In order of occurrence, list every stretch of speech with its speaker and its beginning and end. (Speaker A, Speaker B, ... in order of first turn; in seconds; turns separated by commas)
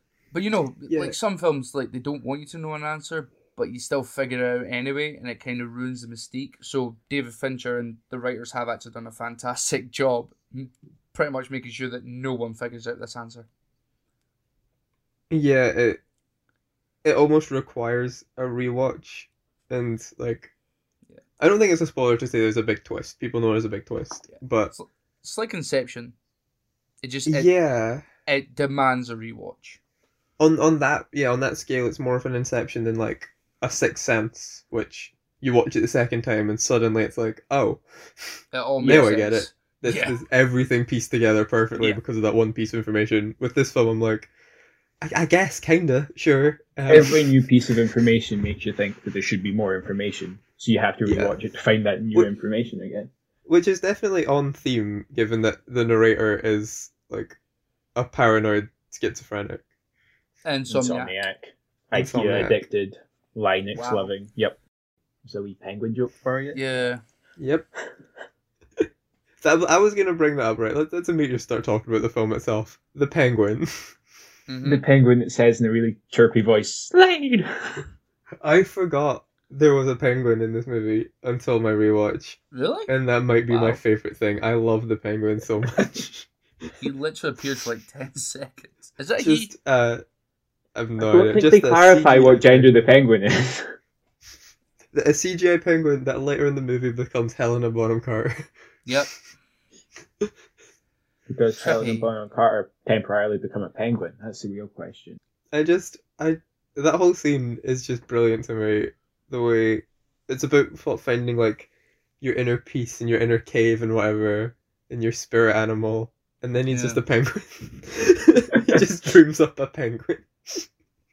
Speaker A: 0.3-13.5, Speaker B: 0.9-1.2, Speaker B: 15.3-16.0, Speaker B: 17.0-20.5, Speaker B: 21.4-24.7, Speaker A: 24.3-26.1, Speaker A: 27.0-27.5, Speaker B: 27.3-28.1, Speaker A: 28.2-29.8, Speaker B: 30.4-44.3, Speaker A: 38.5-40.1, Speaker B: 45.0-47.3, Speaker C: 46.9-53.1, Speaker B: 51.0-51.4, Speaker B: 53.5-57.4, Speaker B: 58.0-59.6, Speaker A: 60.4-61.1, Speaker C: 60.7-64.6, Speaker B: 61.9-62.6, Speaker A: 63.7-64.1, Speaker C: 65.2-66.6, Speaker A: 66.5-67.0, Speaker B: 67.4-67.7, Speaker B: 69.4-74.0, Speaker A: 74.5-74.8, Speaker C: 74.6-77.8, Speaker B: 78.4-86.3, Speaker A: 82.5-82.9, Speaker A: 83.5-83.8, Speaker A: 86.8-89.5, Speaker B: 89.2-90.0, Speaker B: 90.7-92.7, Speaker C: 91.0-93.7, Speaker B: 94.9-98.5, Speaker A: 98.8-99.1, Speaker C: 101.3-105.2, Speaker A: 101.6-102.1, Speaker B: 105.5-111.7, Speaker B: 112.2-120.7, Speaker A: 116.7-117.0